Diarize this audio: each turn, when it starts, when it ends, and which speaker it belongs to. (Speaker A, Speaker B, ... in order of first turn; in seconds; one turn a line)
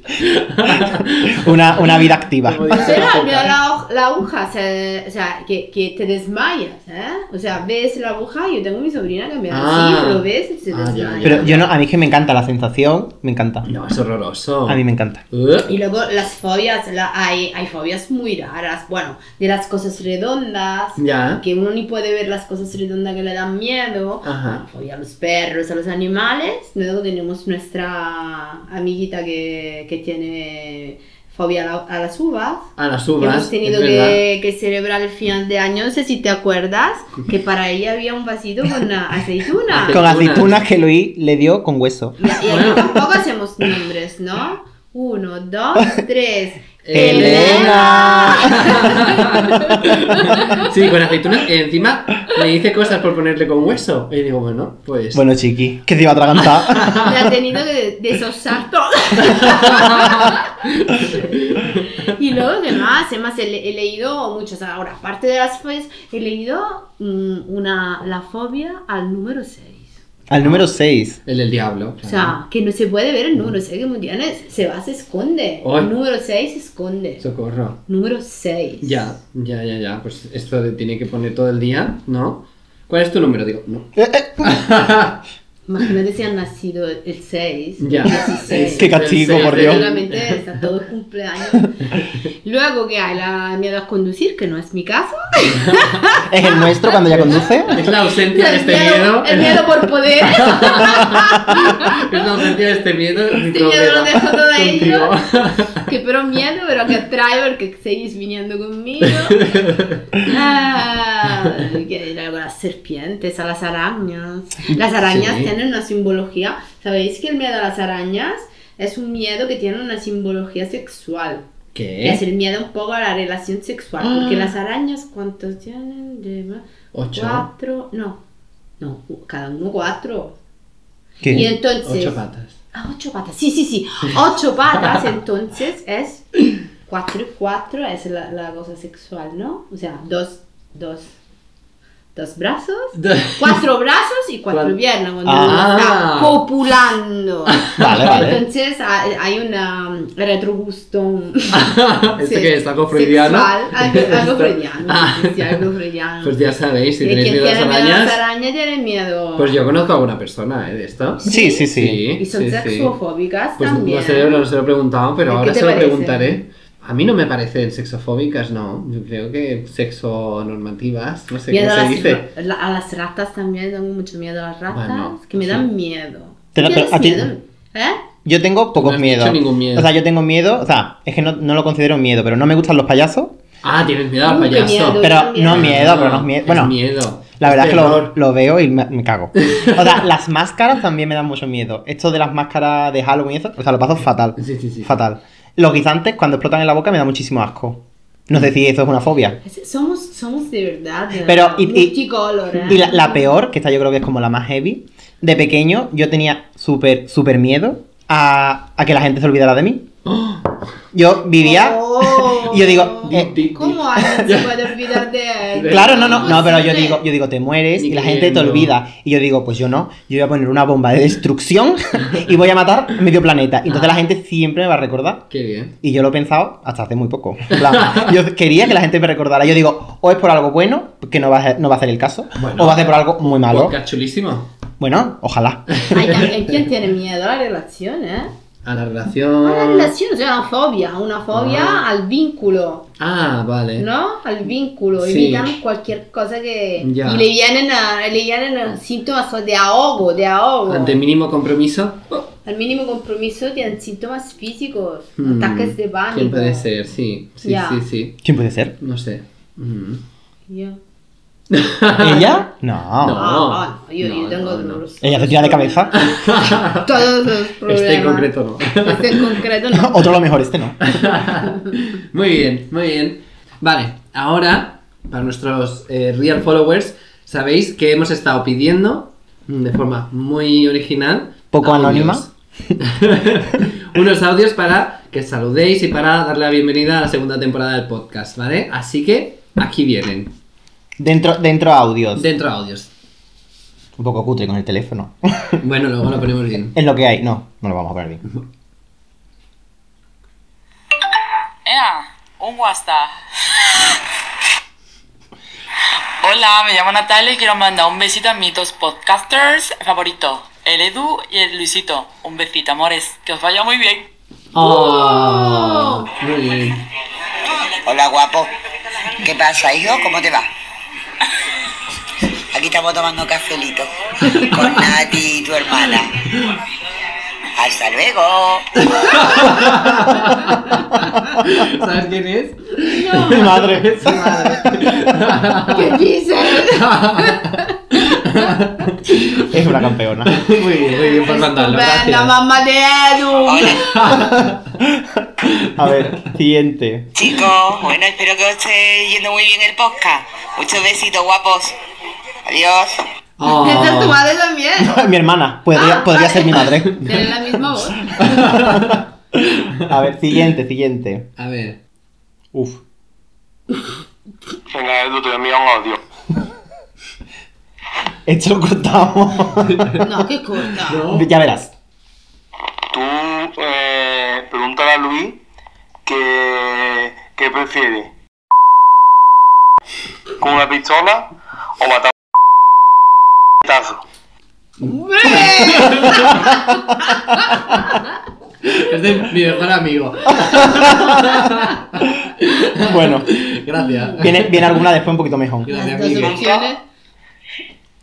Speaker A: 0.2-3.6
Speaker B: 1.3-3.0
Speaker C: 2.7-11.6
Speaker A: 9.5-11.7
Speaker B: 11.2-13.7
Speaker A: 13.7-15.7
Speaker B: 14.7-15.2
Speaker C: 15.6-40.0
Speaker A: 21.0-21.4
Speaker A: 24.2-24.6
Speaker A: 32.8-34.2
Speaker A: 39.7-40.6
Speaker B: 39.9-42.2
Speaker C: 42.2-50.6
Speaker A: 42.5-43.0
Speaker A: 46.8-55.3
Speaker B: 46.9-48.9
Speaker B: 55.1-57.0
Speaker A: 56.8-57.0
Speaker C: 57.0-60.4
Speaker A: 59.3-61.9
Speaker C: 61.1-70.0
Speaker B: 70.3-71.2
Speaker A: 70.4-70.7
Speaker A: 71.2-72.4
Speaker C: 72.0-77.2
Speaker A: 75.6-75.9
Speaker A: 77.2-77.8
Speaker C: 77.9-79.1
Speaker A: 78.8-85.2
Speaker B: 84.0-84.5
Speaker C: 85.7-91.8
Speaker A: 87.8-90.4
Speaker B: 88.7-89.8
Speaker C: 92.4-96.5
Speaker B: 96.3-97.8
Speaker A: 97.1-105.8
Speaker C: 98.3-102.2
Speaker C: 103.4-105.2
Speaker C: 105.8-109.5
Speaker A: 109.3-110.0
Speaker C: 110.2-121.5
Speaker A: 115.0-115.5
Speaker A: 121.7-122.2
Speaker C: 122.0-128.2
Speaker A: 124.0-124.5
Speaker A: 126.9-127.5
Speaker C: 128.8-130.4
Speaker C: 131.3-132.2
Speaker A: 131.3-132.6
Speaker C: 132.7-141.1
Speaker C: 142.2-151.7
Speaker A: 143.0-143.6
Speaker B: 145.3-145.7
Speaker A: 145.3-146.4
Speaker A: 147.6-148.2
Speaker B: 147.8-148.4
Speaker A: 151.5-155.6
Speaker C: 152.2-156.4
Speaker A: 156.2-158.2
Speaker C: 157.0-159.6
Speaker A: 159.4-161.2
Speaker C: 161.2-164.4
Speaker B: 161.3-162.0
Speaker A: 161.7-162.9
Speaker A: 163.6-172.3
Speaker C: 165.3-166.4
Speaker C: 171.5-178.0
Speaker A: 174.7-175.7
Speaker B: 176.6-177.3
Speaker B: 178.2-183.4
Speaker A: 178.8-179.9
Speaker A: 183.6-188.2
Speaker C: 184.2-185.8
Speaker B: 185.0-186.8
Speaker B: 187.4-199.4
Speaker A: 189.4-190.0
Speaker A: 194.4-194.9
Speaker C: 199.4-203.2
Speaker B: 201.3-202.0
Speaker B: 202.6-209.9
Speaker A: 210.1-210.6
Speaker B: 210.9-213.3
Speaker C: 211.4-217.0
Speaker A: 213.1-215.0
Speaker A: 215.5-216.5
Speaker B: 215.7-225.3
Speaker A: 217.8-218.7
Speaker A: 223.7-223.9
Speaker A: 225.3-225.8
Speaker B: 225.8-233.8
Speaker A: 227.6-228.1
Speaker A: 232.4-234.5
Speaker B: 234.8-235.8
Speaker A: 235.7-236.3
Speaker C: 235.9-238.3
Speaker A: 238.6-239.9
Speaker C: 239.4-242.9
Speaker A: 241.3-241.8
Speaker A: 243.0-243.9
Speaker C: 243.8-251.0
Speaker A: 245.0-245.6
Speaker A: 246.8-247.3
Speaker A: 250.7-252.0
Speaker C: 252.4-256.7
Speaker A: 255.2-258.2
Speaker C: 257.4-257.9
Speaker B: 258.2-258.8
Speaker A: 258.8-260.0
Speaker C: 260.5-260.8
Speaker A: 261.5-262.4
Speaker B: 262.0-263.3
Speaker A: 263.0-264.8
Speaker C: 263.1-270.0
Speaker B: 265.0-266.0
Speaker A: 265.9-267.1
Speaker A: 267.7-269.4
Speaker B: 269.7-271.0
Speaker A: 270.8-290.3
Speaker B: 281.5-282.2
Speaker B: 291.0-292.3
Speaker A: 292.2-292.9
Speaker B: 294.0-295.6
Speaker A: 295.6-296.8
Speaker B: 296.7-298.2
Speaker D: 301.6-304.0
Speaker D: 306.2-314.1
Speaker A: 314.5-316.8
Speaker C: 314.6-316.1
Speaker E: 317.9-318.5
Speaker E: 319.2-320.5
Speaker E: 322.5-326.1
Speaker E: 327.6-328.8
Speaker A: 328.9-335.9
Speaker C: 332.8-333.7
Speaker B: 333.2-334.5
Speaker C: 335.6-337.8
Speaker A: 336.6-339.5
Speaker B: 339.4-340.4
Speaker A: 340.3-342.4
Speaker C: 340.9-344.0
Speaker E: 343.5-343.8
Speaker A: 343.8-344.7
Speaker B: 345.7-347.1
Speaker E: 347.1-351.7
Speaker E: 352.4-353.0
Speaker A: 353.4-354.2
Speaker C: 353.5-355.0
Speaker B: 354.8-357.0
Speaker C: 355.7-358.6
Speaker A: 358.2-359.0
Speaker B: 359.8-361.3
Speaker A: 361.4-361.8
Speaker B: 362.5-362.8
Speaker F: 364.7-366.0
Speaker B: 368.3-370.0
Speaker C: 370.0-371.0
Speaker A: 370.9-371.3
Speaker B: 371.1-371.7
Speaker F: 372.9-375.4
Speaker F: 376.1-378.1
Speaker F: 380.4-382.1
Speaker F: 383.6-384.0
Speaker C: 384.9-386.5
Speaker A: 385.3-386.4
Speaker A: 388.7-394.9
Speaker B: 390.6-391.2
Speaker B: 392.8-393.4
Speaker B: 394.2-395.7
Speaker A: 395.6-396.7
Speaker C: 395.7-396.8